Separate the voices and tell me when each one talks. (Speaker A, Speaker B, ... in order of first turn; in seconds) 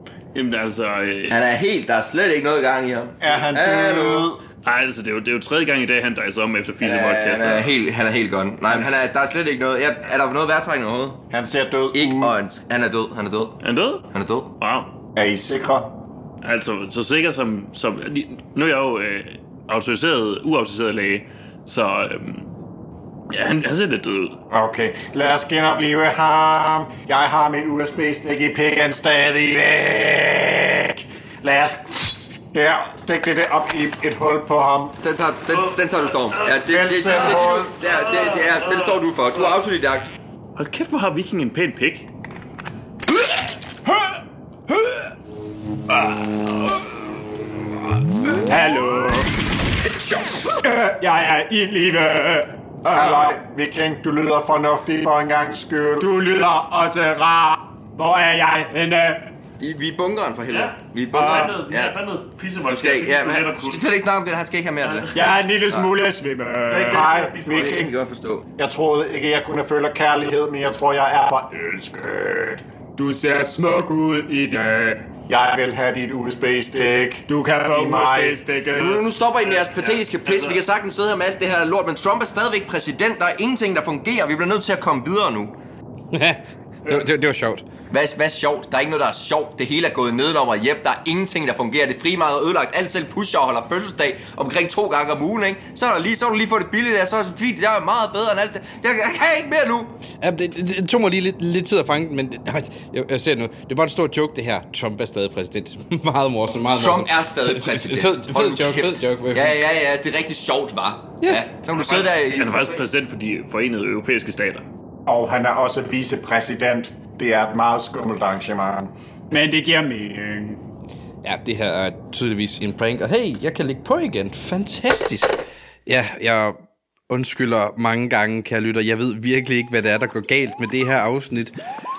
Speaker A: 0.3-1.4, 4.6-7.7, 13.6-14.1, 14.6-14.9, 16.4-22.5, 23.3-24.4, 35.5-36.5, 37.1-39.5, 40.6-42.1, 60.5-63.9, 64.8-65.1, 66.7-67.8, 79.5-80.6, 111.9-114.6
Speaker B: 1.3-4.3, 6.8-11.2, 11.9-13.6, 14.1-14.5, 35.0-40.1, 50.0-50.4, 59.6-62.0, 62.6-65.9, 67.5-68.5, 78.7-85.5, 87.9-100.0, 106.7-112.8
Speaker C: 3.2-4.4, 8.8-9.0, 11.3-12.4, 15.2-15.9, 24.5-35.0, 36.6-37.7, 52.9-56.1, 66.8-67.9, 68.6-72.6, 75.3-78.4, 115.1-118.9
Speaker D: 43.9-45.1, 46.0-46.4, 48.4-49.3, 50.6-53.3, 56.0-59.3, 61.1-61.5, 65.1-67.1, 73.0-75.0, 77.3-79.1, 119.3-120.6
Speaker E: 86.1-87.7, 100.1-109.6, 121.2-131.5